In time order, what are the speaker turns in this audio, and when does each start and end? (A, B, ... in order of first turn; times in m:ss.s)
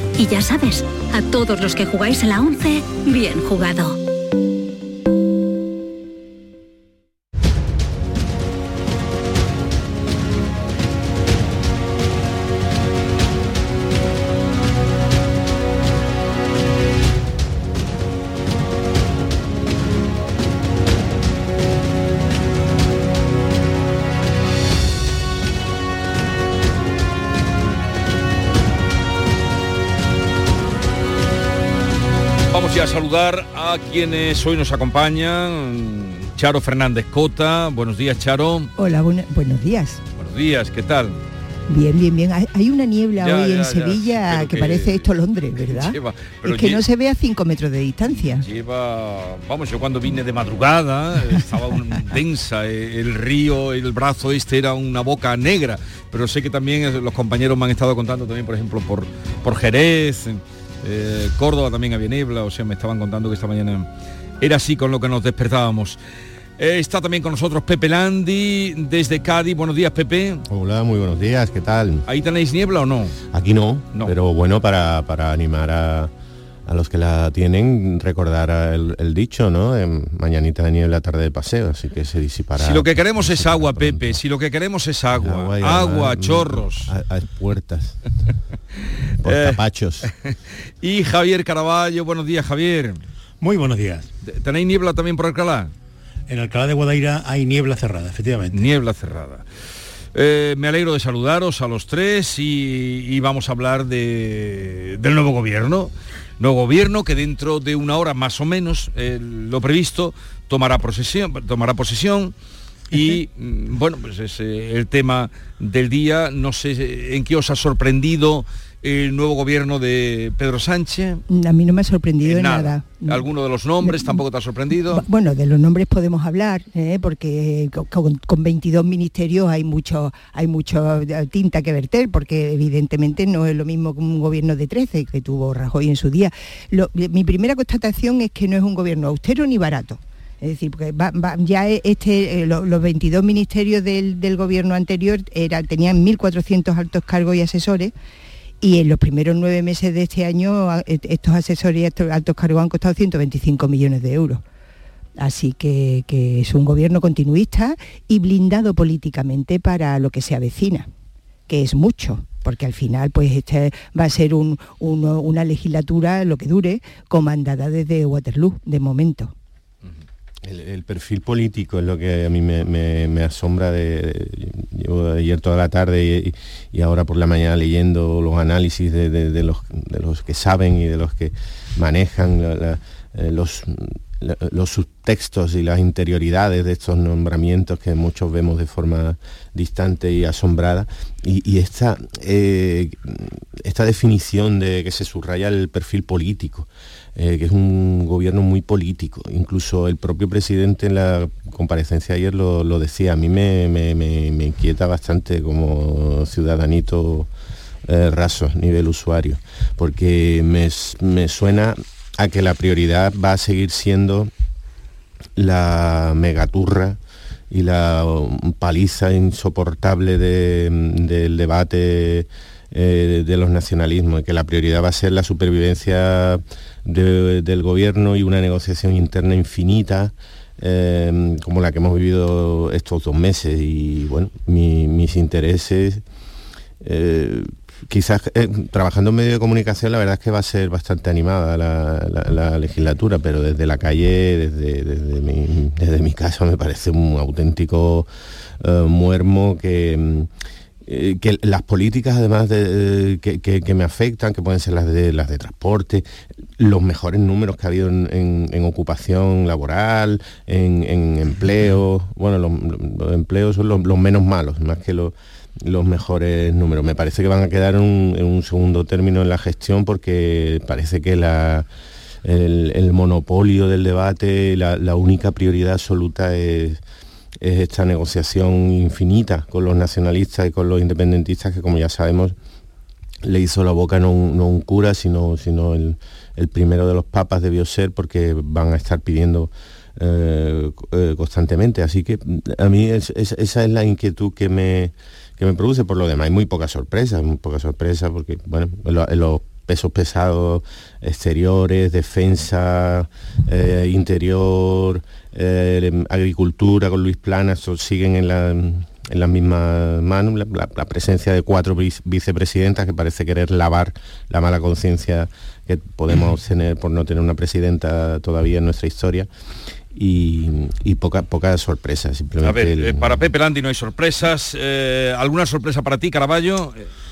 0:00.2-0:02.2 A
0:32.5-0:38.7 B
0:38.8-0:40.0 C
0:40.2-0:41.2 B
0:41.7-0:48.4 C
0:43.2-0:45.1 B
0:45.7-0:46.8 B
0:48.1-1:03.9 B
1:04.4-1:06.0 B
1:06.6-1:10.4 B
1:10.5-1:12.0 D
1:12.1-1:13.2 B
1:13.3-1:16.1 D
1:16.6-1:24.2 D
1:22.6-1:26.9 B
1:25.2-1:28.0 D
1:29.2-1:30.1 D
1:29.2-1:29.6 B
1:30.8-1:33.0 B
1:33.4-1:34.1 E
1:34.2-1:35.7 B
1:36.3-1:38.6 E
1:38.5-1:39.4 B
1:40.1-1:52.3 B
1:52.9-2:01.2 B
2:01.3-2:03.3 C
2:02.2-2:05.0 B
2:03.8-2:04.2 C
2:04.9-2:27.9 C
2:28.6-2:34.4 C
2:35.2-2:40.9 C
2:41.5-2:49.3 C
2:50.4-3:27.3 D
3:27.9-3:34.3 D
3:35.4-3:37.0 D
3:37.5-3:56.0 D
3:56.8-4:08.1 D
4:08.6-4:10.3 D
4:10.8-4:31.7 D
4:32.2-4:36.8 D
4:37.4-4:42.3 D
4:43.2-5:19.3 D
5:19.9-5:23.2 D
5:22.4-5:26.9 B